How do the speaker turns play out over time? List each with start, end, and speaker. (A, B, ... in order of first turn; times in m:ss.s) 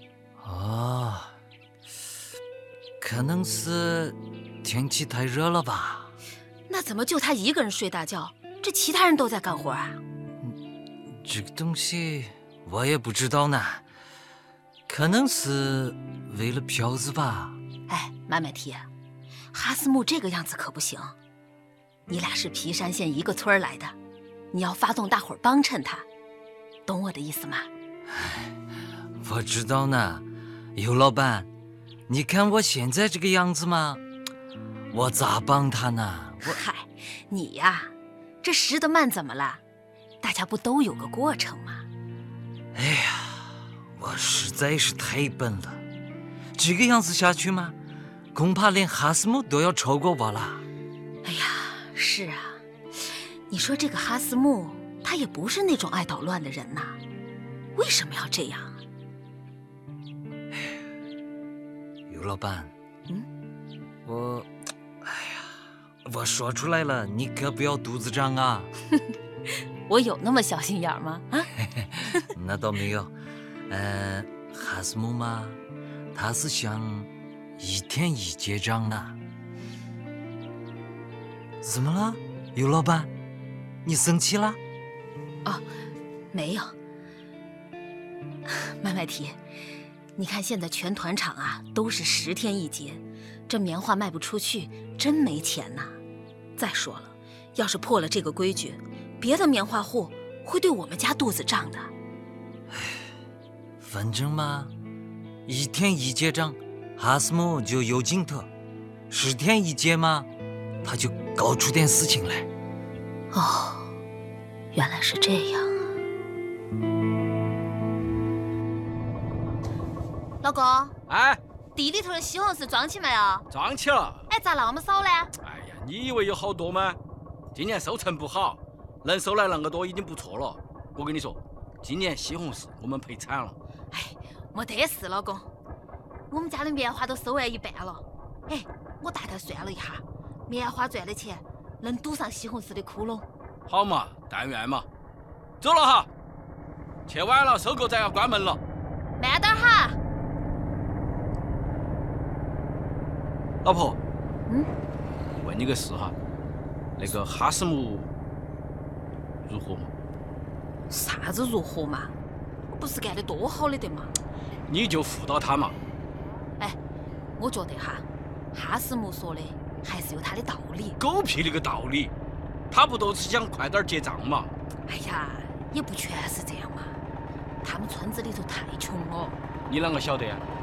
0:00.4-0:01.3 A
0:03.0-0:06.1 A
0:06.7-0:10.0 B
0:11.1-0:13.8 A
0:14.9-0:17.6 A
0:17.9-0:18.9 B
0:19.5-0:21.2 B
0:22.1-0:24.0 B
0:24.5-0:26.1 B
0:26.9-0:27.7 B
0:28.1-0:28.5 A
0:29.2-0:31.5 A
0:32.1-0:34.0 A
0:34.9-0:36.6 A
0:36.4-0:37.9 B
0:38.4-0:39.6 B
0:40.2-0:41.9 B
0:42.7-0:45.8 A
0:46.6-0:47.8 A
0:48.3-0:50.6 A
0:51.2-0:52.6 B
0:53.5-0:57.0 B
0:57.8-0:58.8 B
1:02.1-1:02.7 A
1:04.0-1:04.5 A
1:05.0-1:05.5 A
1:06.0-1:08.7 A
1:09.9-1:11.5 B
1:11.7-1:13.1 A
1:13.7-1:15.6 A
1:16.1-1:19.2 A
1:21.6-1:23.1 A
1:23.8-1:24.6 A
1:26.3-1:26.7 B
1:28.6-1:29.4 B
1:30.2-1:36.0 B
1:36.6-1:41.9 B
1:42.7-1:43.0 A
1:43.8-1:44.7 A
1:45.5-1:48.5 A
1:49.1-1:50.3 A
1:50.8-1:52.5 A
1:53.3-1:53.9 B
1:54.7-1:55.7 B
2:00.4-2:01.0 B
2:01.1-2:01.4 C
2:01.8-2:03.5 B
2:03.5-2:04.2 C
2:04.3-2:05.3 B
2:05.4-2:07.0 C
2:07.5-2:13.6 C
2:13.9-2:15.5 B
2:16.3-2:23.3 B
2:23.7-2:24.9 C
2:25.6-2:26.1 C
2:27.1-2:28.6 C
2:29.2-2:30.0 B
2:33.6-2:34.0 C
2:35.4-2:36.2 C
2:37.0-2:38.1 C
2:39.5-2:39.9 C
2:40.9-2:42.1 B
2:42.7-2:44.1 B
2:44.7-2:45.8 C
2:47.4-2:51.0 B
2:51.0-2:52.1 C
2:52.7-2:54.5 C
2:54.9-2:57.0 B
2:57.6-2:59.4 B
2:59.7-3:00.5 C